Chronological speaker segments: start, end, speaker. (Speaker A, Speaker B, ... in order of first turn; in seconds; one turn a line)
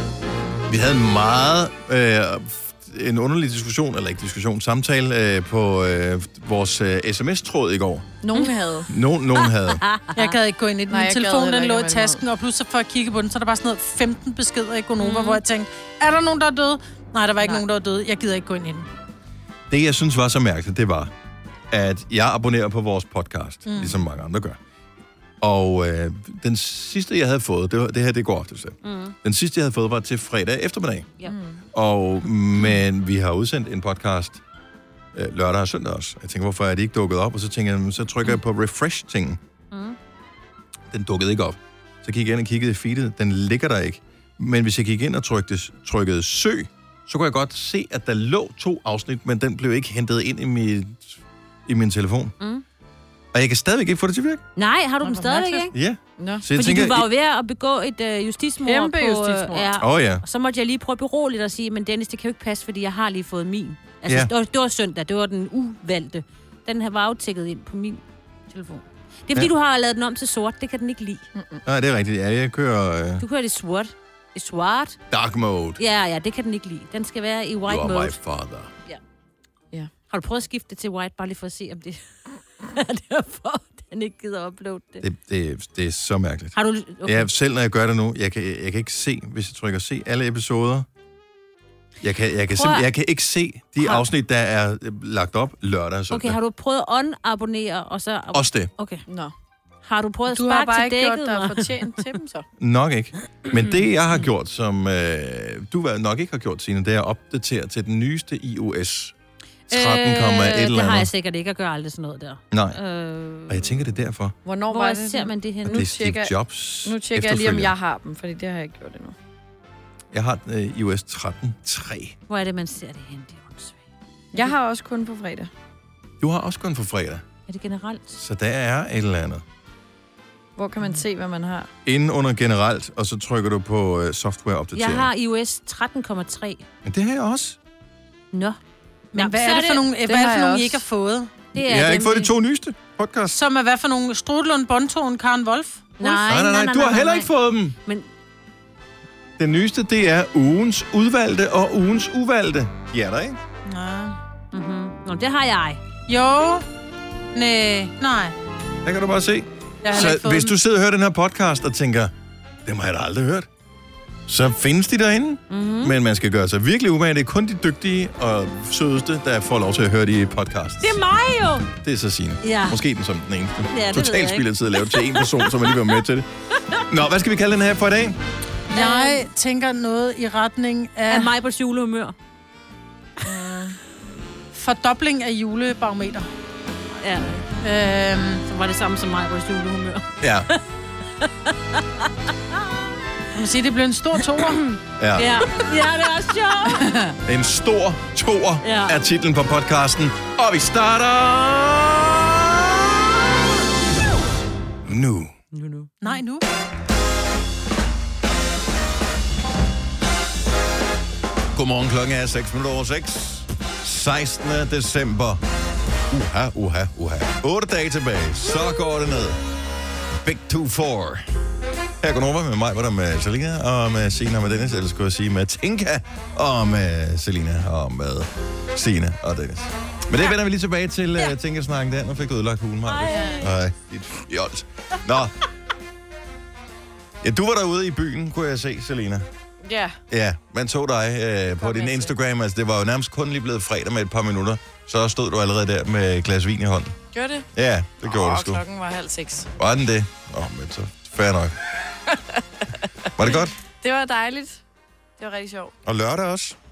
Speaker A: 0.7-8.1
Speaker B: 8.2-8.9
Speaker A: 8.9-9.8
Speaker C: 9.3-10.3
Speaker D: 10.2-18.9
Speaker B: 10.9-12.2
Speaker C: 15.0-15.4
Speaker A: 19.7-21.1
Speaker A: 21.7-24.6
Speaker D: 23.6-24.0
Speaker A: 25.4-31.1
Speaker C: 28.8-29.1
Speaker B: 31.2-31.6
Speaker A: 31.7-34.4
Speaker A: 35.1-39.4
Speaker C: 39.7-40.0
Speaker A: 40.9-52.3
Speaker A: 53.3-54.4
Speaker C: 54.5-55.7
Speaker D: 55.0-55.7
Speaker A: 55.7-57.1
Speaker B: 56.2-56.5
Speaker C: 56.5-71.2
Speaker B: 58.6-59.7
Speaker A: 59.8-60.2
Speaker B: 71.3-71.6
Speaker A: 71.6-73.2
Speaker C: 73.2-75.0
Speaker A: 75.1-75.8
Speaker C: 75.8-78.2
Speaker A: 77.7-78.7
Speaker C: 80.1-82.0
Speaker C: 82.6-85.0
Speaker A: 85.0-90.9
Speaker C: 86.5-87.3
Speaker A: 92.0-96.4
Speaker C: 92.5-92.9
Speaker C: 96.1-99.0
Speaker A: 98.3-98.7
Speaker B: 99.1-99.3
Speaker C: 99.8-101.7
Speaker B: 100.3-102.5
Speaker A: 102.6-109.1
Speaker C: 103.5-103.9
Speaker A: 109.7-111.1
Speaker C: 109.7-113.7
Speaker A: 112.5-112.8
Speaker A: 113.5-114.3
Speaker B: 114.4-116.3
Speaker C: 114.7-115.9
Speaker A: 115.6-117.7
Speaker B: 116.8-119.1
Speaker A: 120.1-122.2
Speaker C: 122.3-123.8
Speaker B: 124.3-125.5
Speaker A: 126.2-127.2
Speaker C: 127.5-128.2
Speaker A: 128.2-129.4
Speaker B: 130.6-131.7
Speaker A: 131.8-135.1
Speaker C: 134.8-136.6
Speaker A: 136.8-137.6
Speaker C: 138.3-138.6
Speaker D: 139.1-141.3
Speaker C: 139.1-139.9
Speaker B: 140.0-140.8
Speaker C: 141.5-142.3
Speaker A: 141.5-143.4
Speaker D: 143.3-146.2
Speaker C: 146.0-147.3
Speaker A: 146.2-147.8
Speaker A: 149.4-153.4
Speaker D: 153.7-154.2
Speaker C: 154.5-155.8
Speaker D: 156.1-156.7
Speaker D: 157.3-158.3
Speaker A: 158.8-162.1
Speaker D: 159.8-160.5
Speaker A: 162.7-163.5
Speaker A: 164.3-171.0
Speaker C: 165.5-165.9
Speaker C: 170.8-171.7
Speaker A: 171.8-176.3
Speaker C: 172.4-172.8
Speaker C: 173.7-176.0
Speaker A: 176.9-178.2
Speaker C: 178.7-179.2
Speaker D: 178.7-181.3
Speaker C: 181.1-182.1
Speaker B: 183.2-183.8
Speaker D: 184.5-186.3
Speaker C: 187.0-187.5
Speaker D: 187.6-188.4
Speaker C: 188.4-190.6
Speaker A: 190.2-190.5
Speaker C: 191.2-192.6
Speaker D: 193.3-194.6
Speaker C: 194.4-196.9
Speaker A: 195.0-195.4
Speaker B: 196.7-197.1
Speaker A: 197.2-203.1
Speaker C: 198.6-199.0
Speaker A: 204.8-205.3
Speaker C: 205.5-206.2
Speaker D: 206.0-206.4
Speaker A: 211.5-215.4
Speaker A: 216.1-219.4
Speaker A: 220.2-221.2
Speaker A: 222.0-235.4
Speaker C: 232.8-233.5
Speaker B: 233.1-233.4
Speaker A: 237.2-239.2
Speaker B: 239.6-240.0
Speaker A: 240.1-246.9
Speaker C: 241.7-242.1
Speaker B: 247.1-247.5
Speaker A: 247.5-248.6
Speaker B: 248.0-249.5
Speaker A: 249.6-251.6
Speaker A: 253.2-253.5
Speaker B: 253.8-254.6
Speaker B: 255.2-255.7
Speaker A: 255.8-256.6